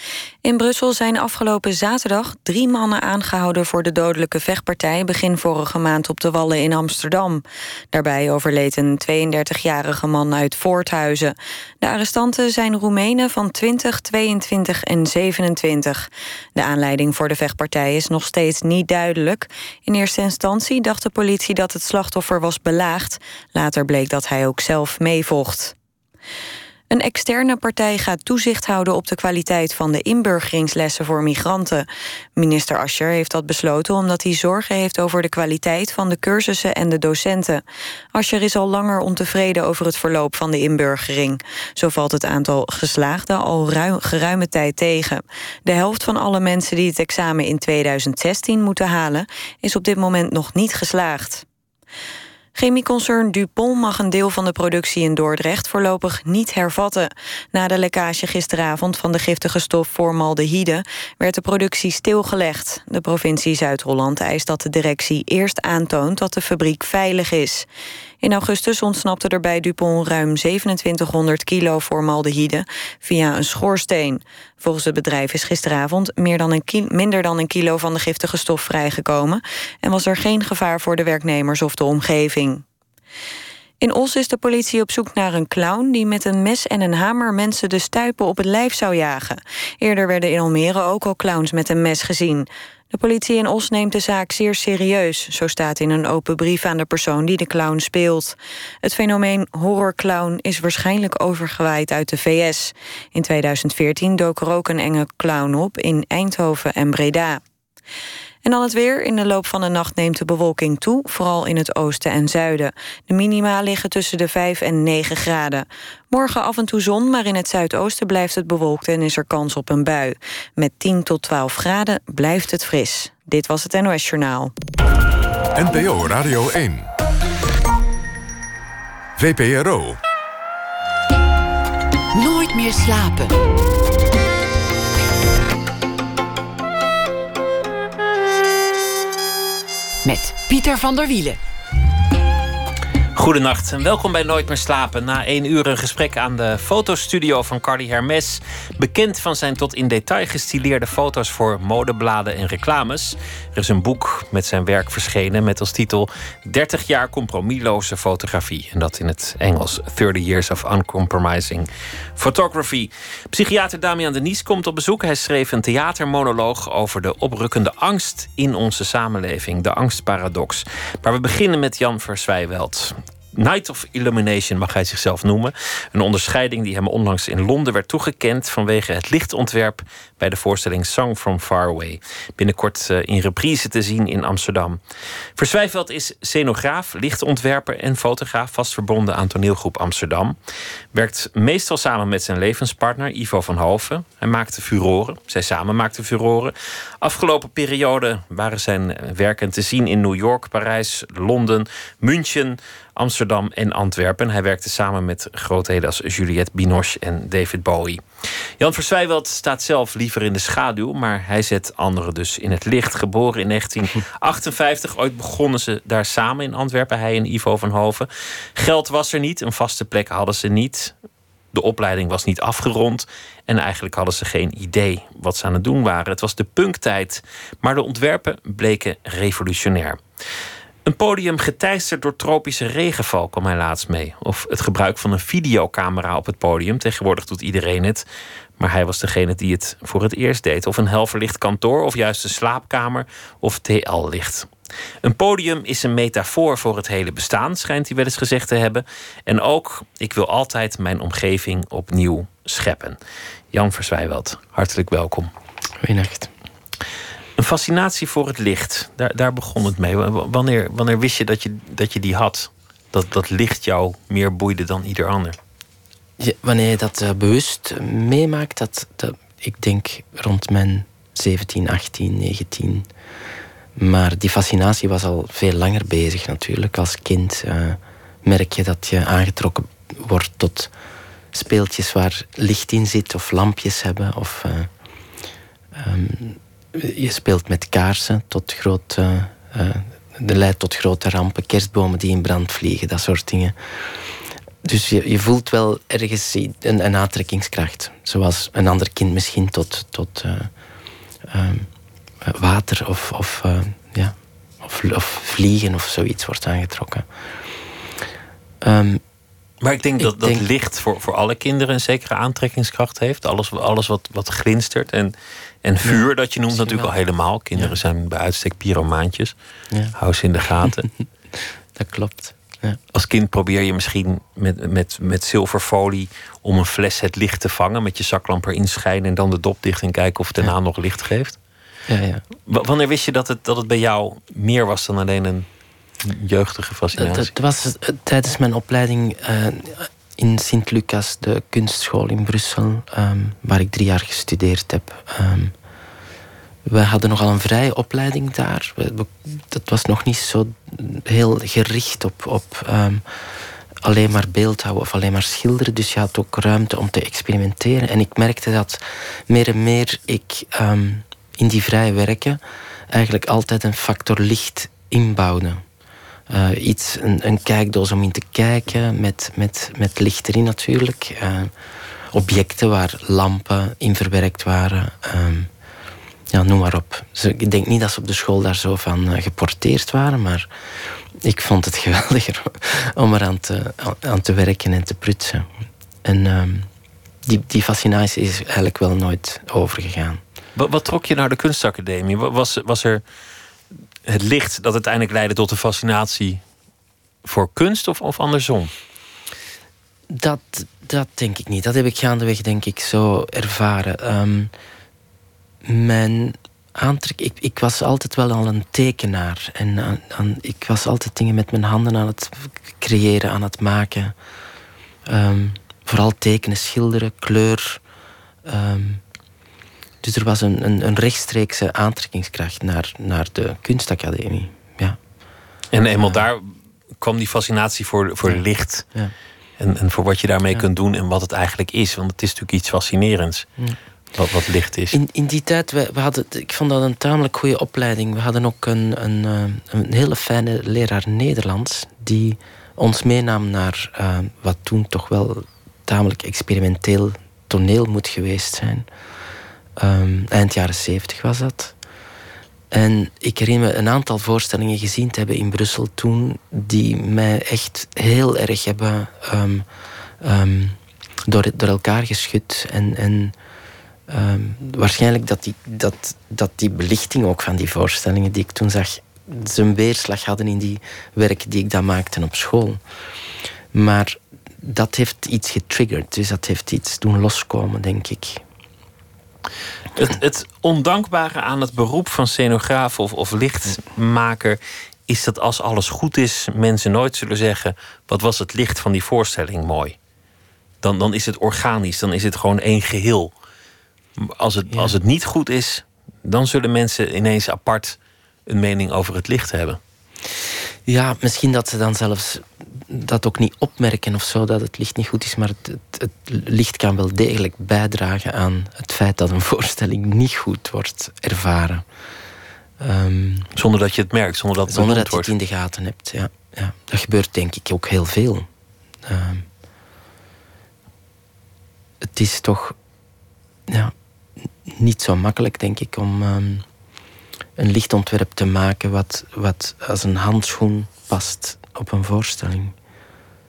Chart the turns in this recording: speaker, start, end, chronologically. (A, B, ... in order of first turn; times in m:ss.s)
0:00.4-0:07.4 A
0:07.9-0:25.7 A
0:26.9-0:31.8 A
0:32.4-0:37.6 A
0:38.2-0:51.4 A
0:52.6-1:07.6 A
1:08.2-1:22.6 A
1:23.8-1:47.4 A
1:48.4-2:04.5 A
2:05.6-2:06.9 B
2:09.2-2:10.0 B
2:12.1-2:13.4 C
2:20.0-2:21.4 C
2:23.2-3:04.8 D
3:05.4-3:10.4 D
3:10.9-3:28.0 D
3:28.6-3:40.9 D
3:41.5-3:50.0 D
3:50.8-3:58.0 D
3:58.6-4:04.5 D
4:05.0-4:13.0 D
4:13.5-4:15.3 D
4:15.8-4:16.3 E
4:17.4-4:25.4 D
4:26.2-4:32.9 E
4:33.8-4:40.7 E
4:41.3-4:44.7 E
4:45.7-4:54.0 E
4:54.6-5:00.5 E
5:01.2-5:01.7 E
5:02.2-5:07.1 E
5:08.6-5:09.0 E
5:09.6-5:19.3 D
5:10.0-5:10.5 E
5:15.8-5:16.9 E
5:20.0-5:20.9 D
5:20.6-5:22.8 E
5:22.9-5:31.4 D
5:31.9-5:32.2 E
5:32.5-5:35.5 D
5:36.0-5:37.3 D
5:37.0-5:45.5 E
5:46.7-5:53.3 E
5:53.8-6:05.6 E
6:06.3-6:11.5 E
6:12.1-6:15.5 E
6:16.3-6:25.5 E
6:26.0-6:26.7 E
6:27.2-6:30.2 E
6:30.6-6:33.0 D
6:34.1-6:36.4 D
6:37.2-6:38.7 D
6:40.1-6:44.5 E
6:45.6-6:54.2 E
6:55.1-6:57.8 E
6:58.4-6:59.0 E
7:00.0-7:05.0 E
7:05.7-7:08.9 D
7:09.6-7:13.5 D
7:14.2-7:15.0 D
7:14.9-7:28.9 E
7:29.8-7:31.8 E
7:32.7-7:39.7 E
7:40.2-7:43.4 E
7:44.1-7:52.8 E
7:53.7-7:58.4 E
8:00.0-8:10.0 D
8:10.8-8:13.3 D
8:14.2-8:19.8 D
8:20.9-8:31.9 E
8:32.8-8:33.5 E
8:33.6-8:35.3 D
8:34.7-8:38.5 E
8:39.0-8:39.5 E
8:42.0-8:42.8 E
8:43.7-8:43.9 E
8:44.6-8:46.6 E
8:47.6-8:52.8 E